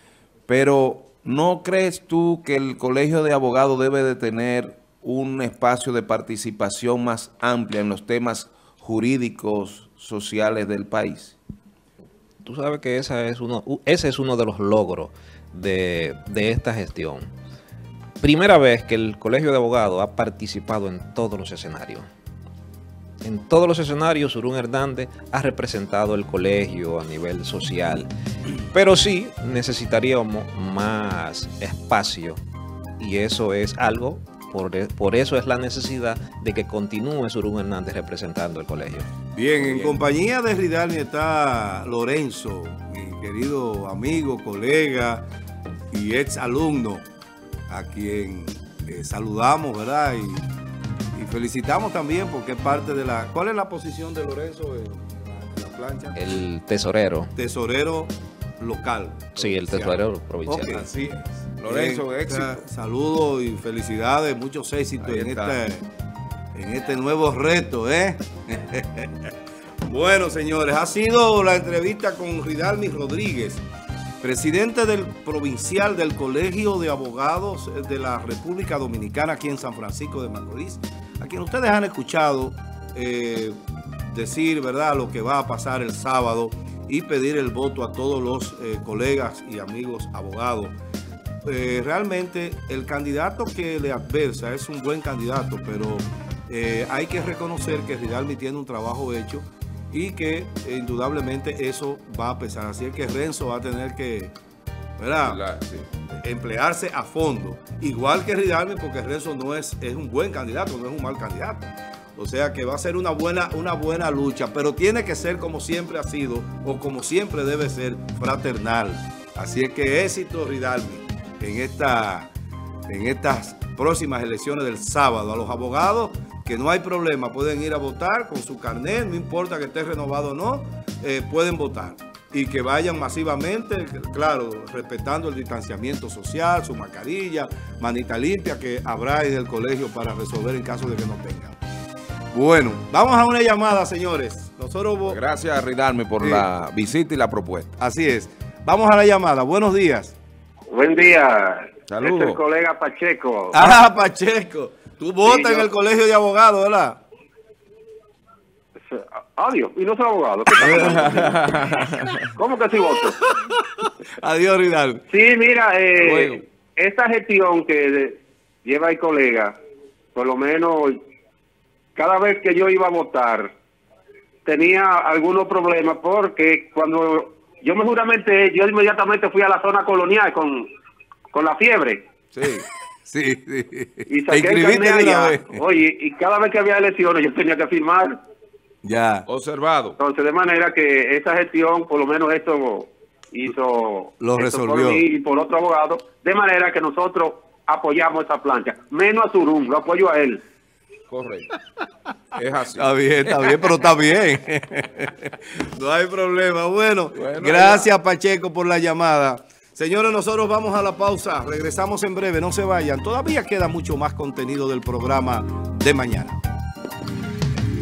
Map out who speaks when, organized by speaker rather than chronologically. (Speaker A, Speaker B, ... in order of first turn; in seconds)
Speaker A: 0.5-11.4, 61.6-62.6, 65.0-65.6, 105.2-105.9, 145.1-147.7, 151.9-152.4, 160.6-162.2, 165.9-166.4, 182.3-182.7, 189.3-190.0, 201.1-201.5, 202.3-202.8, 207.1-207.9
Speaker B: 12.4-17.3, 18.2-22.1, 23.2-28.1, 28.7-32.4, 33.0-39.1, 56.2-57.3, 59.4-60.9
Speaker C: 39.3-45.2, 45.9-47.0, 47.7-50.5, 51.1-56.2, 57.3-65.9, 66.5-69.3, 69.9-73.6, 74.2-90.8, 91.5-104.3, 105.0-105.4, 106.2-122.3, 122.9-141.6, 142.3-145.2, 146.2-146.5, 147.8-150.2, 153.5-157.0, 160.6-161.4, 163.0-165.1, 183.1-185.6, 188.8-189.3, 194.2-195.0, 202.8-216.4
Speaker D: 150.7-153.6, 155.2-155.7, 158.9-161.4, 162.4-163.2, 165.1-169.6, 170.2-171.0, 171.9-173.5, 174.4-180.7, 181.3-182.1, 184.1-188.2, 190.0-200.4